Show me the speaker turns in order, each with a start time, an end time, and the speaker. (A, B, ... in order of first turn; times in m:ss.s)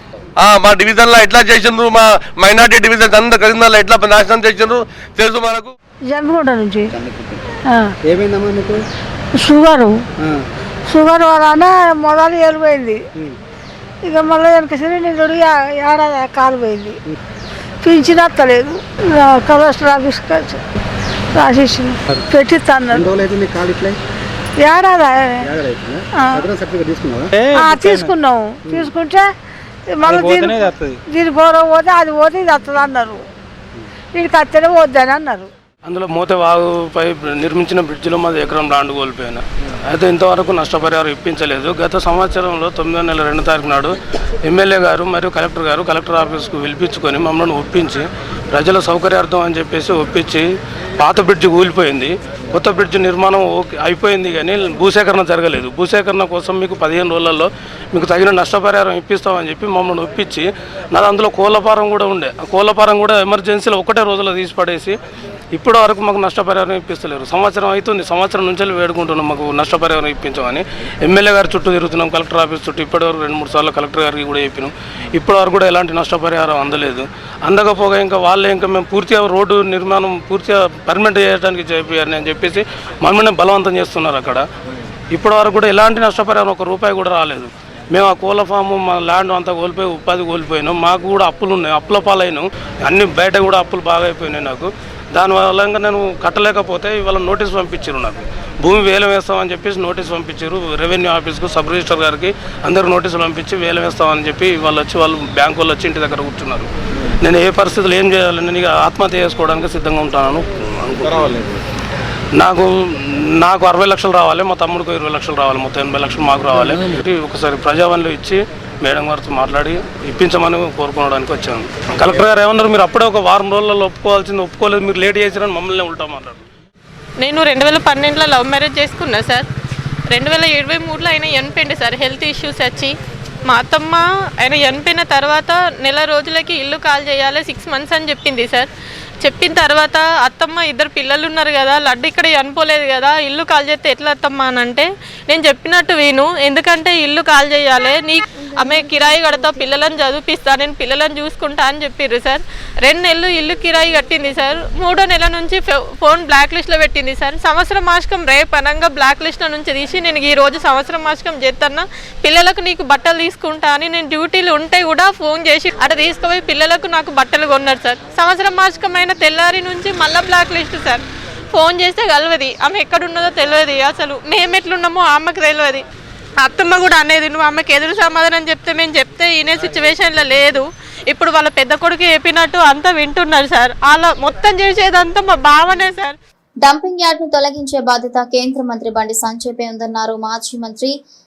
0:00.4-0:05.7 A
0:06.1-0:06.9 B
0:07.0-0:07.4 C
0:08.0-0:08.8 C
0:09.4-0:10.0 B
0:10.2-0:10.4 C
0:10.9-0:13.0 B
0:14.0-0:17.0 B
0:17.8-0:20.6 B
0:21.3-0:23.0 B
0:22.9-0:24.0 C
0:24.6-0:25.4 B
0:25.5-0:27.4 C
0:26.1-0:26.4 B
0:27.5-0:29.3 B
0:29.9-0:33.2 B
0:34.1-0:35.5 B
0:35.9-0:43.9 D
0:44.4-0:50.5 D
0:51.0-1:04.9 D
1:05.5-1:24.4 D
1:25.1-1:46.7 D
1:47.2-1:51.4 D
1:52.4-2:06.4 D
2:07.2-2:09.4 E
2:10.1-2:12.9 E
2:13.5-2:18.7 E
2:19.2-2:51.0 E
2:51.5-2:55.8 E
2:56.4-3:06.1 E
3:06.6-3:10.9 F